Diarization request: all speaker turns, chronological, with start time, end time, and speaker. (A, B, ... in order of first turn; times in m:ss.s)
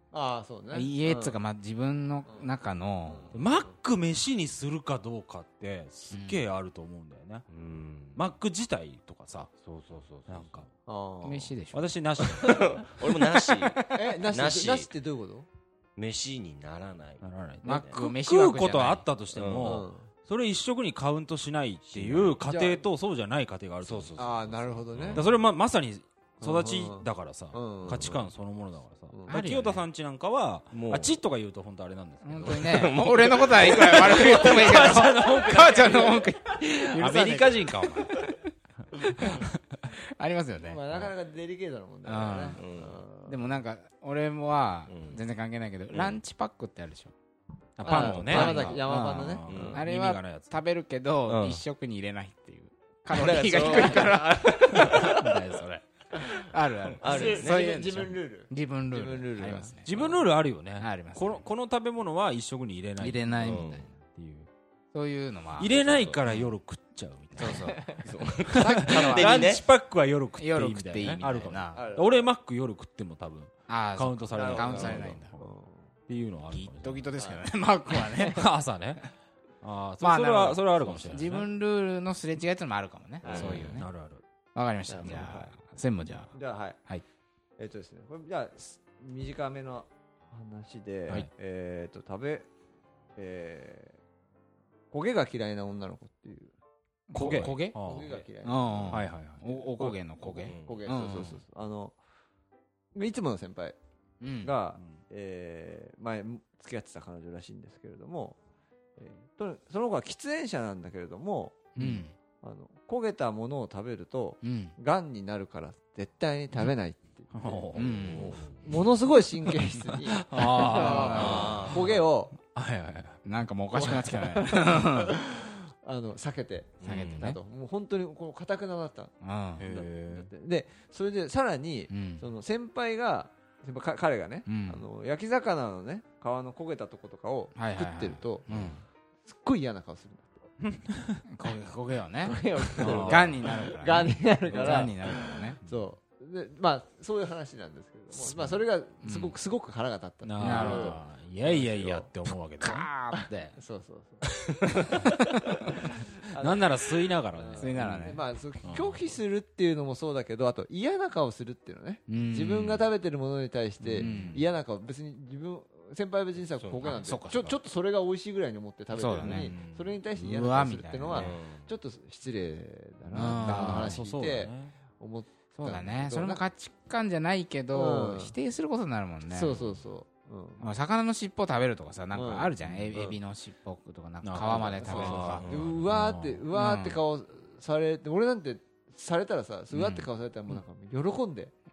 0:00.1-0:01.4 A
0:00.7-0:03.4 B
0:03.1-0:03.3 A
0:03.3-0:07.5 C
0:06.1-0:06.4 B
0:07.5-0:08.2 D
0:08.2-0:09.5 C
0:09.6-0:10.5 D
0:10.3-0:10.7 C
0:10.9-0:11.6 A
0:11.2-0:12.4 B
0:11.7-0:12.8 C
0:12.4-0:14.9 D
0:13.9-0:15.5 A
0:16.0-0:18.0 D
0:17.2-0:24.3 C
0:17.6-0:19.0 B
0:19.4-0:19.8 D
0:19.6-0:20.1 A
0:21.9-0:22.4 D
0:22.4-0:22.8 A
0:23.8-0:25.2 D
0:24.2-0:25.4 A
0:25.1-0:32.9 C
0:26.4-0:28.3 A
0:29.1-0:29.4 A
0:29.3-0:29.8 B
0:30.7-0:31.2 D
0:32.2-0:38.4 B
0:32.4-0:36.2 D
0:34.3-0:38.2 C
0:39.0-0:40.8 B
0:40.6-0:43.5 A
0:42.1-0:42.6 B
0:42.6-0:43.0 D
0:43.2-0:47.1 B
0:44.9-0:45.2 D
0:47.8-0:50.5 C
0:47.8-0:49.8 A
0:47.8-0:59.9 B
0:48.4-0:48.7 D
0:49.5-0:49.8 D
0:51.3-0:51.6 D
0:53.1-0:54.6 D
0:53.2-0:55.1 A
0:54.8-0:55.8 C
0:57.0-0:57.8 D
0:57.0-1:00.2 A
0:59.8-1:04.5 C
1:00.8-1:01.5 B
1:03.0-1:03.9 B
1:03.4-1:03.9 D
1:04.9-1:06.5 B
1:05.6-1:07.8 C
1:05.7-1:06.2 D
1:07.4-1:08.0 B
1:07.8-1:09.6 D
1:08.5-1:15.5 C
1:08.6-1:09.5 B
1:10.4-1:11.9 B
1:11.7-1:12.3 A
1:13.7-1:15.3 B
1:14.3-1:15.9 A
1:14.4-1:15.1 D
1:16.1-1:17.1 C
1:16.5-1:18.5 B
1:17.2-1:17.4 A
1:18.2-1:19.1 C
1:19.6-1:21.5 C
1:20.0-1:23.9 B
1:23.2-1:23.7 A
1:23.2-1:23.7 D
1:23.3-1:24.2 C
1:24.6-1:26.3 B
1:24.9-1:25.6 A
1:26.3-1:26.8 A
1:27.6-1:32.5 A
1:33.2-1:34.0 A
1:34.9-1:36.5 A
1:37.1-1:37.8 B
1:37.1-1:38.2 C
1:37.2-1:39.0 A
1:38.4-1:41.4 B
1:38.9-1:39.4 C
1:39.8-1:42.0 A
1:40.4-1:40.8 D
1:43.0-1:43.8 A
1:44.2-1:44.5 B
1:44.4-1:48.4 A
1:49.0-1:51.7 A
1:51.8-1:52.1 B
1:52.4-2:02.4 A
1:54.4-1:54.8 B
1:57.3-1:58.4 C
1:57.8-1:58.4 B
1:58.0-1:58.7 D
1:59.9-2:01.8 C
2:00.4-2:01.7 B
2:00.9-2:01.9 D
2:02.4-2:03.2 C
2:03.2-2:05.2 B
2:03.7-2:18.5 A
2:06.8-2:07.3 D
2:06.8-2:07.4 B
2:09.2-2:09.7 B
2:09.6-2:10.3 C
2:11.9-2:12.2 B
2:14.5-2:14.8 B
2:17.6-2:18.8 B
2:18.5-2:18.8 C
2:19.2-2:20.5 A
2:20.6-2:21.2 C
2:21.3-2:25.6 B
2:22.2-2:32.1 A
2:22.8-2:23.4 C
2:24.5-2:24.8 C
2:29.0-2:29.4 B
2:30.2-2:33.5 C
2:30.4-2:31.0 B
2:32.3-2:33.4 B
2:33.5-2:34.5 A
2:36.3-2:36.7 A
2:36.4-2:39.0 C
2:37.3-2:56.4 A
2:37.6-2:38.2 B
2:42.1-2:42.8 B
2:43.8-2:44.4 C
2:44.0-2:44.4 B
2:46.6-2:47.0 D
2:46.8-2:47.6 B
2:48.9-2:49.6 B
2:49.2-2:50.0 C
2:50.2-2:51.3 B
2:51.1-2:51.7 D
2:53.1-2:54.0 B
2:53.2-2:54.8 C
2:55.6-2:59.6 B
2:57.7-2:58.4 A
2:59.3-3:00.6 A
3:00.6-3:05.4 B
3:02.1-3:03.2 A
3:02.6-3:03.0 C
3:04.2-3:06.4 C
3:04.4-3:11.5 A
3:06.5-3:07.0 B
3:09.8-3:10.0 B